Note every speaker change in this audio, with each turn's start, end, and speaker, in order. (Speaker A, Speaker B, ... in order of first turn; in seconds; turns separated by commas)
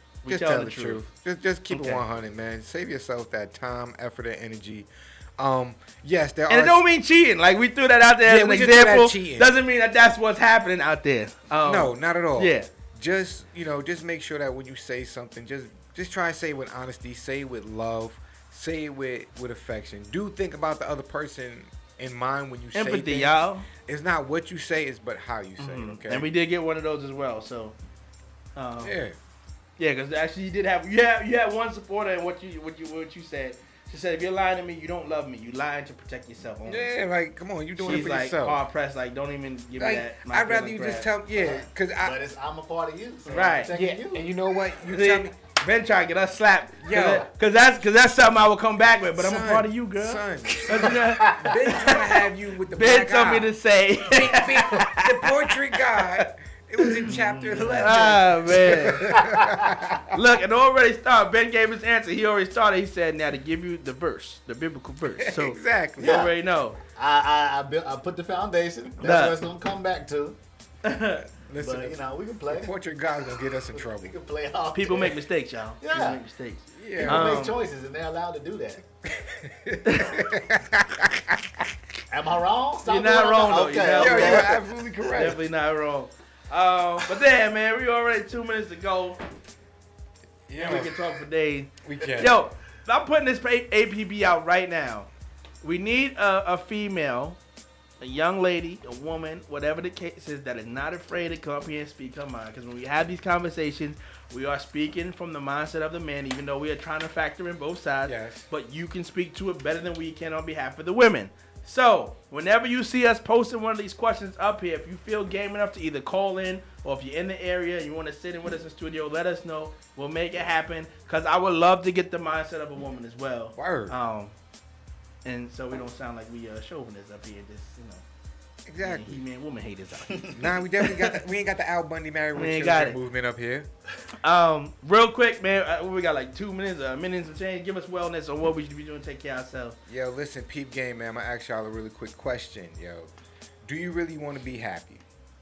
Speaker A: 0.2-1.0, Speaker B: 0.3-6.8, Speaker A: 1.7-2.0, Speaker A: 6.5-12.7, Speaker B: 8.2-9.6, Speaker B: 11.6-26.3, Speaker A: 22.7-23.7, Speaker A: 25.6-27.8, Speaker A: 28.6-29.0, Speaker B: 28.8-29.2, Speaker A: 29.8-36.9, Speaker B: 36.6-38.6, Speaker A: 37.8-41.1, Speaker B: 39.8-42.2, Speaker C: 41.4-44.3, Speaker A: 43.3-43.7, Speaker B: 43.7-45.3, Speaker A: 44.9-56.3, Speaker B: 46.8-47.3, Speaker B: 49.1-60.2, Speaker C: 50.7-51.7, Speaker A: 56.8-59.2, Speaker C: 57.6-58.2, Speaker C: 58.7-59.8, Speaker A: 60.1-66.8, Speaker B: 65.2-66.3, Speaker C: 66.0-66.3, Speaker C: 66.9-70.4, Speaker A: 69.0-69.3, Speaker A: 70.8-71.2, Speaker B: 71.3-72.0, Speaker C: 71.6-72.7, Speaker B: 72.5-74.2, Speaker C: 73.7-75.2, Speaker A: 74.7-77.6, Speaker C: 75.8-76.2, Speaker B: 76.8-77.4, Speaker C: 77.0-78.8, Speaker B: 79.1-81.7, Speaker A: 79.8-80.2, Speaker C: 82.1-84.6, Speaker A: 82.9-84.5, Speaker B: 84.0-85.4, Speaker A: 85.1-89.2, Speaker B: 90.5-91.0, Speaker A: 90.6-95.1, Speaker B: 91.8-92.4, Speaker A: 95.6-97.4, Speaker A: 98.0-124.4, Speaker B: 108.0-108.5, Speaker B: 123.6-124.0, Speaker A: 125.2-128.1, Speaker B: 128.7-129.2, Speaker A: 128.8-130.4, Speaker B: 130.3-133.7, Speaker A: 132.4-133.0, Speaker A: 134.2-139.8, Speaker B: 139.9-143.1, Speaker B: 143.6-145.0